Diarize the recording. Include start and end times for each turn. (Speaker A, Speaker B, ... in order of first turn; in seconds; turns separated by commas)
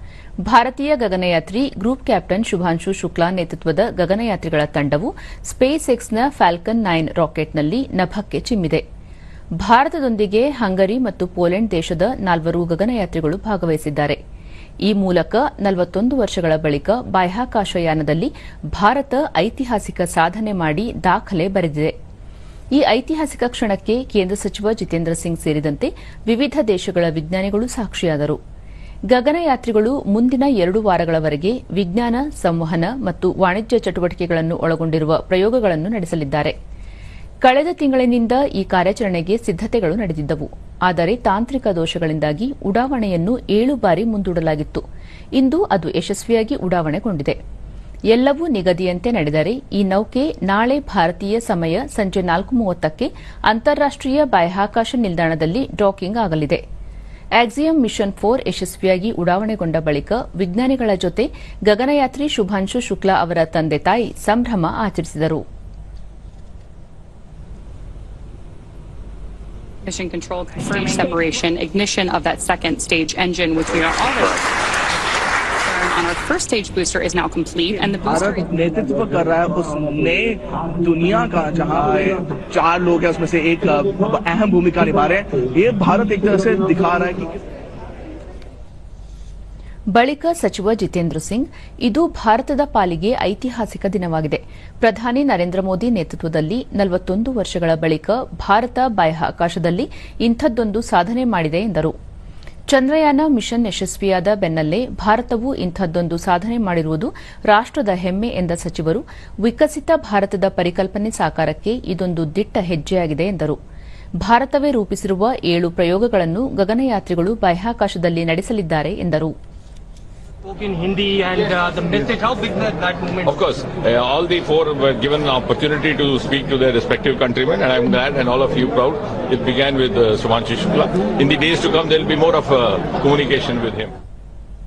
Speaker A: 0.4-8.8, Speaker A: 9.6-14.2, Speaker A: 14.8-21.9, Speaker A: 22.7-28.4, Speaker A: 29.1-36.5, Speaker A: 37.4-44.8, Speaker A: 45.4-47.4, Speaker A: 48.1-56.6, Speaker A: 57.4-65.4, Speaker B: 69.8-74.5, Speaker B: 75.6-78.5, Speaker C: 78.0-87.4, Speaker A: 89.9-101.9, Speaker A: 102.7-113.6, Speaker A: 114.2-119.3, Speaker D: 120.5-123.3, Speaker E: 123.2-133.9